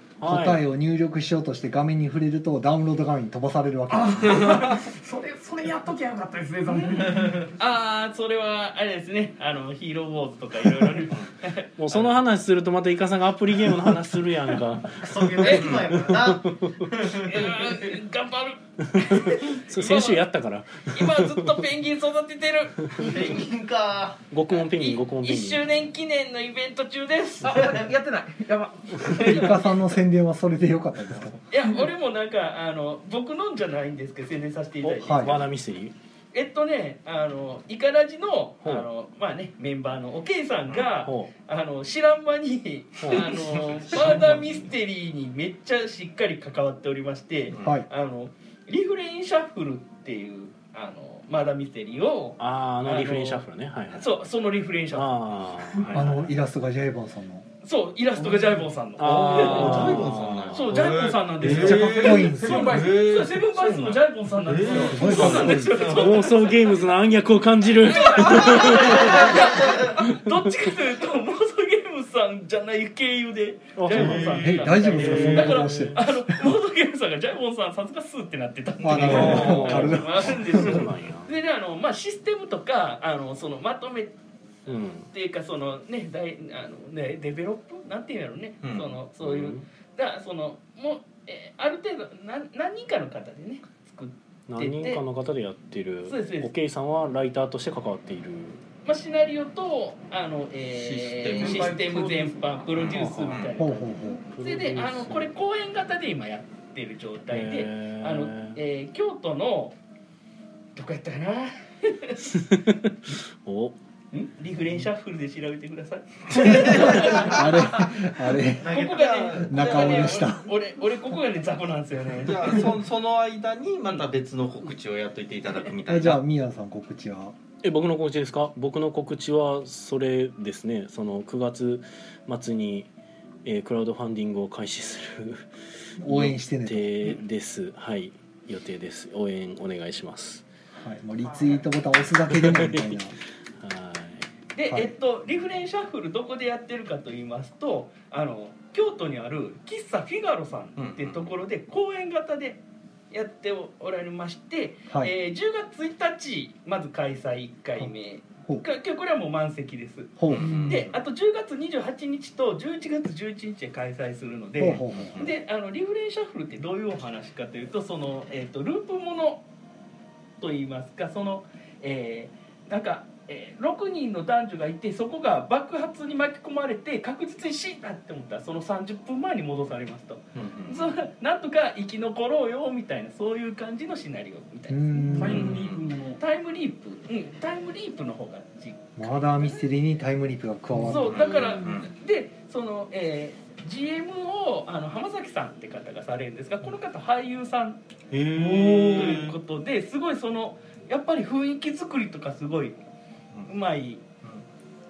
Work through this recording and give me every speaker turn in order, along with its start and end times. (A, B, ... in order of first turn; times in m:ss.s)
0:00.2-0:00.6 A
0:00.2-0:04.6 B
0:03.9-0:07.4 C
0:07.6-0:12.1 D
0:11.8-0:16.9 A
0:15.0-0:17.7 E
0:15.4-0:15.7 D
0:15.6-0:15.9 F
0:17.2-0:20.3 D
0:18.9-0:21.6 A
0:20.9-0:23.5 D
0:23.0-0:24.2 E
0:24.3-0:25.6 A
0:24.7-0:27.8 D
0:27.4-0:29.6 G
0:29.1-0:31.4 B
0:31.5-0:35.4 D
0:34.8-0:35.9 A
0:35.0-0:35.4 B
0:36.3-0:53.4 D
0:40.7-0:40.9 F
0:41.0-0:41.3 A
0:43.1-0:44.6 F
0:47.5-0:47.8 F
0:47.6-0:47.9 B
0:52.4-0:54.3 A
0:53.9-0:55.3 D
0:54.9-0:55.9 A
0:55.9-0:57.5 B
0:57.6-1:06.6 D
0:59.0-1:00.7 A
0:59.0-1:06.1 F
1:01.4-1:03.1 C
1:01.5-1:02.8 B
1:04.8-1:05.8 B
1:04.9-1:10.3 A
1:07.8-1:24.1 D
1:09.2-1:09.9 E
1:13.8-1:16.0 A
1:13.9-1:15.3 F
1:14.4-1:16.1 B
1:18.8-1:20.9 B
1:18.9-1:19.7 F
1:19.0-1:21.4 A
1:24.7-1:25.1 A
1:25.1-1:35.0 D
1:28.6-1:29.0 F
1:29.2-1:29.6 A
1:34.5-1:38.6 A
1:36.1-1:36.5 D
1:38.8-1:49.8 D
1:40.7-1:41.8 F
1:41.4-1:42.6 C
1:42.7-1:43.5 F
1:42.9-1:43.4 A
1:43.6-1:44.2 B
1:44.3-1:45.3 A
1:47.3-1:48.6 A
1:50.8-1:52.3 D
1:52.3-1:53.8 A
1:54.4-1:57.9 D
1:56.3-1:57.4 F
1:56.4-1:58.7 B
1:58.6-2:00.1 E
1:58.6-2:02.7 D
1:59.4-2:00.5 B
2:02.2-2:06.2 F
2:05.9-2:07.4 B
2:07.6-2:12.9 A
2:13.4-2:15.5 A
2:16.0-2:17.2 B
2:16.0-2:20.4 A
2:20.8-2:23.2 B
2:21.2-2:21.6 G
2:22.3-2:23.0 A
2:23.6-2:24.3 A
2:24.5-2:32.6 D
2:24.7-2:24.9 B
2:30.8-2:31.4 F
2:33.1-2:49.4 D
2:40.2-2:40.9 B
2:40.3-2:41.0 F
2:44.6-2:45.2 B
2:44.9-2:45.3 F
2:50.4-3:05.7 D
3:00.4-3:01.0 F
3:04.7-3:05.5 B
3:05.1-3:06.2 C
3:05.3-3:05.8 F
3:06.2-3:09.6 D
3:09.0-3:11.6 B
3:10.8-3:17.8 D
3:10.9-3:11.9 F
3:18.1-3:19.4 F
3:18.3-3:22.8 D
3:23.5-3:24.0 D